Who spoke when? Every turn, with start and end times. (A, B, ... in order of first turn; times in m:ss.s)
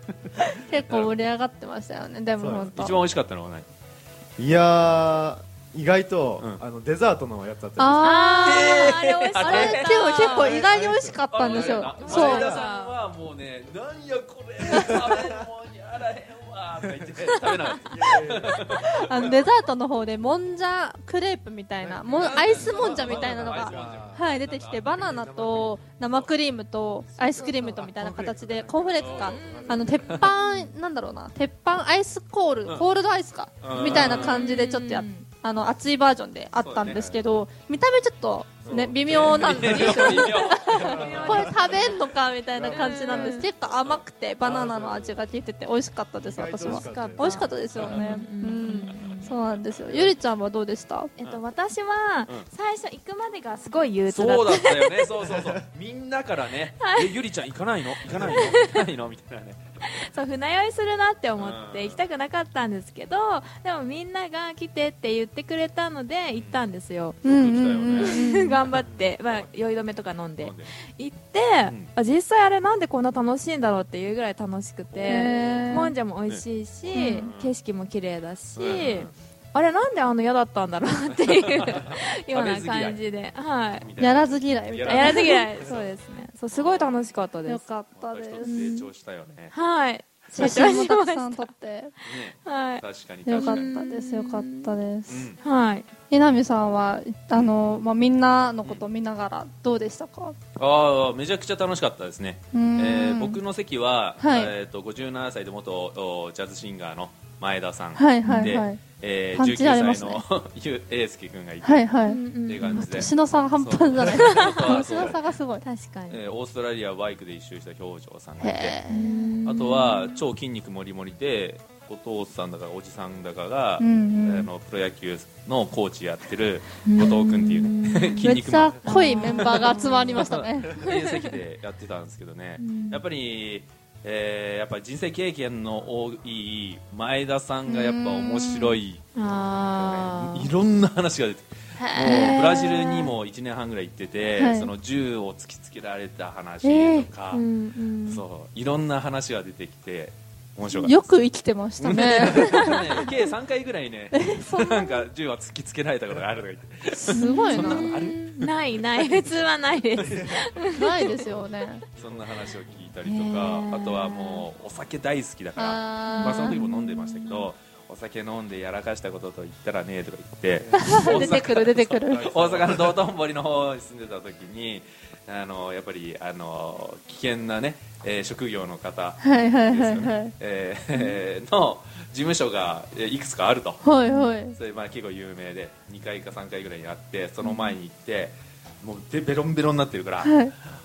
0:00.4-0:03.0 A
0:00.9-0:01.1 B
0:02.4-0:02.8 C
0:02.7-0:03.7 B
0:04.4-0:08.1 C
0:07.8-0:12.6 A
0:08.0-0:10.6 D
0:08.4-0:10.5 B
0:10.3-0:12.6 C
0:11.3-0:19.5 B
0:11.6-0:13.0 D
0:17.8-0:18.6 C
0:18.8-0:51.1 A
0:21.8-0:24.3 C
0:22.1-0:25.1 B
0:24.9-0:25.8 C
0:27.2-0:30.3 C
0:29.0-0:30.3 B
0:29.3-0:30.7 D
0:33.6-0:34.5 B
0:33.9-0:35.3 D
0:33.9-0:34.1 C
0:36.6-0:37.2 B
0:38.6-0:43.8 C
0:38.7-0:41.4 B
0:40.8-0:42.0 D
0:42.7-0:43.5 D
0:44.4-0:45.2 C
0:46.2-0:48.0 C
0:46.6-0:49.4 D
0:47.8-0:48.2 B
0:49.8-0:50.1 C
0:51.2-0:55.1 D
0:54.1-0:59.9 B
0:56.8-0:57.1 D
0:58.1-0:58.8 D
0:59.9-1:07.2 D
1:01.4-1:02.0 B
1:06.4-1:06.7 B
1:07.2-1:08.2 B
1:07.2-1:08.6 A
1:08.0-1:23.9 D
1:08.8-1:09.7 B
1:10.4-1:10.7 B
1:15.0-1:16.0 A
1:16.3-1:17.5 B
1:16.9-1:17.3 A
1:18.6-1:19.1 B
1:21.6-1:23.0 B
1:23.8-1:25.9 B
1:24.0-1:25.5 A
1:24.9-1:27.6 D
1:26.5-1:27.0 B
1:27.4-1:28.6 A
1:28.0-1:29.5 B
1:28.4-1:28.9 D
1:29.5-1:31.5 D
1:30.3-1:31.9 A
1:32.0-1:33.7 B
1:32.1-1:32.8 D
1:33.3-1:35.3 A
1:33.4-1:34.8 D
1:35.1-1:35.4 B
1:35.4-1:35.9 D
1:36.1-1:40.4 A
1:40.6-1:51.9 B
1:42.5-1:43.4 A
1:44.2-1:44.5 A
1:48.0-1:48.8 A
1:48.2-1:48.6 D
1:49.3-1:50.2 A
1:51.6-1:55.6 A
1:52.0-1:53.1 D
1:52.4-1:55.2 B
1:54.3-1:55.1 D
1:55.6-1:56.2 D
1:56.1-1:58.8 B
1:58.4-1:59.1 A
1:58.9-2:00.2 D
1:59.5-2:27.4 B
2:03.8-2:04.5 A
2:06.8-2:10.3 D
2:08.2-2:10.8 A
2:10.8-2:11.3 D
2:12.6-2:13.0 D
2:17.7-2:18.8 A
2:19.2-2:20.5 D
2:21.8-2:23.0 A
2:22.1-2:23.1 D
2:24.4-2:24.7 A
2:26.6-2:27.1 A
2:27.3-2:28.2 D
2:28.0-2:31.0 B
2:30.7-2:33.1 A
2:31.8-2:38.5 B
2:32.4-2:32.8 D
2:34.1-2:35.1 A
2:37.1-2:38.0 A
2:37.1-2:41.1 D
2:40.0-2:40.5 C
2:40.8-2:41.8 A
2:42.0-2:42.4 C
2:42.0-3:03.8 B
2:43.0-2:44.5 D
2:45.6-2:46.6 A
2:46.0-2:47.5 D
2:50.6-2:53.0 C
2:50.8-2:52.3 A
2:59.2-3:00.3 A
3:03.8-3:04.6 A
3:04.5-3:10.4 B
3:07.4-3:07.8 D
3:10.2-3:10.5 A